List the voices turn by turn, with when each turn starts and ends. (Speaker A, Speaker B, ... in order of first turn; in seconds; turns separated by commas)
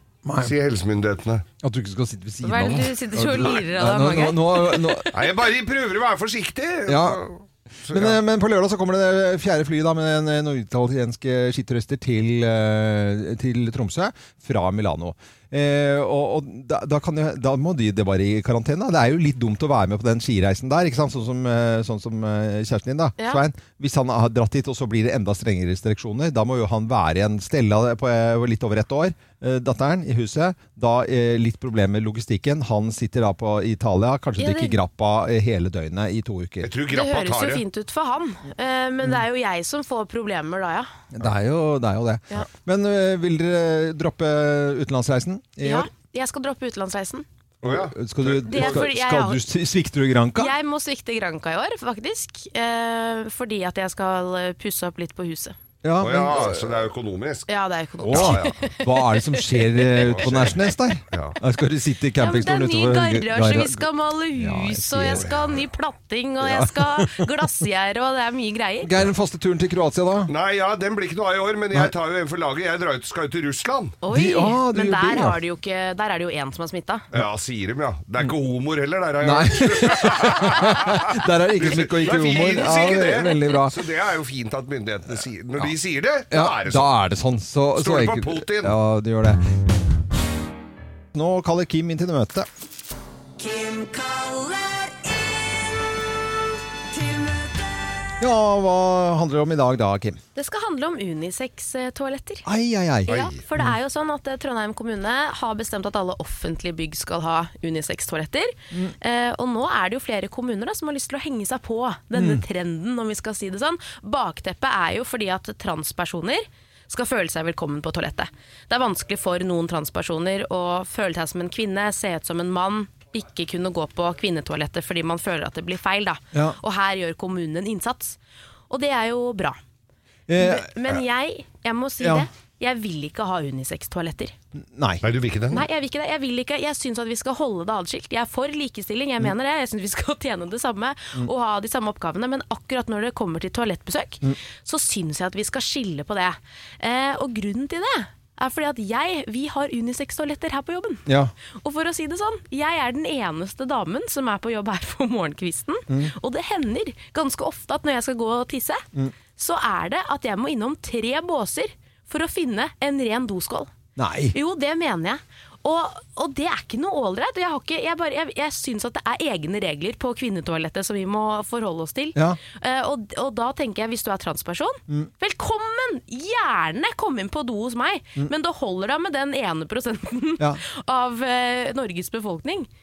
Speaker A: 0.2-0.5, Speaker B: 0.4-1.4, Speaker A: 1.6-5.2, Speaker C: 2.4-5.1, Speaker B: 5.1-8.2, Speaker A: 6.9-7.2, Speaker A: 7.9-36.7, Speaker C: 34.4-34.8, Speaker B: 36.6-37.6, Speaker C: 36.9-40.9, Speaker A: 41.1-45.9, Speaker C: 45.6-47.3, Speaker B: 47.6-48.8, Speaker A: 47.6-50.5, Speaker C: 48.5-49.4, Speaker C: 50.4-55.5, Speaker A: 55.8-56.9, Speaker B: 56.0-57.5, Speaker C: 57.5-60.2, Speaker B: 58.0-58.6, Speaker A: 58.0-65.3, Speaker B: 60.0-60.6, Speaker B: 61.1-61.4, Speaker C: 62.2-68.9, Speaker B: 65.1-65.6, Speaker A: 66.4-67.5, Speaker A: 68.8-70.3, Speaker B: 70.3-74.0, Speaker C: 74.0-77.1, Speaker A: 74.1-75.4, Speaker B: 77.1-86.9, Speaker A: 79.2-83.8, Speaker A: 86.3-89.4, Speaker B: 87.8-88.8, Speaker A: 91.1-92.5, Speaker C: 93.4-95.1, Speaker C: 96.9-97.5, Speaker A: 98.2-100.2, Speaker C: 100.3-102.5, Speaker A: 102.5-103.8, Speaker C: 103.0-128.2, Speaker B: 103.1-103.4, Speaker A: 112.1-112.4, Speaker C: 128.7-129.6, Speaker A: 130.3-130.9, Speaker C: 130.4-134.3, Speaker A: 132.0-132.3, Speaker A: 134.6-135.1, Speaker B: 135.0-135.7, Speaker C: 135.5-151.1, Speaker A: 151.1-151.3, Speaker C: 151.6-158.8, Speaker A: 155.9-156.1, Speaker C: 159.4-163.7, Speaker A: 164.0-164.3, Speaker C: 164.3-182.7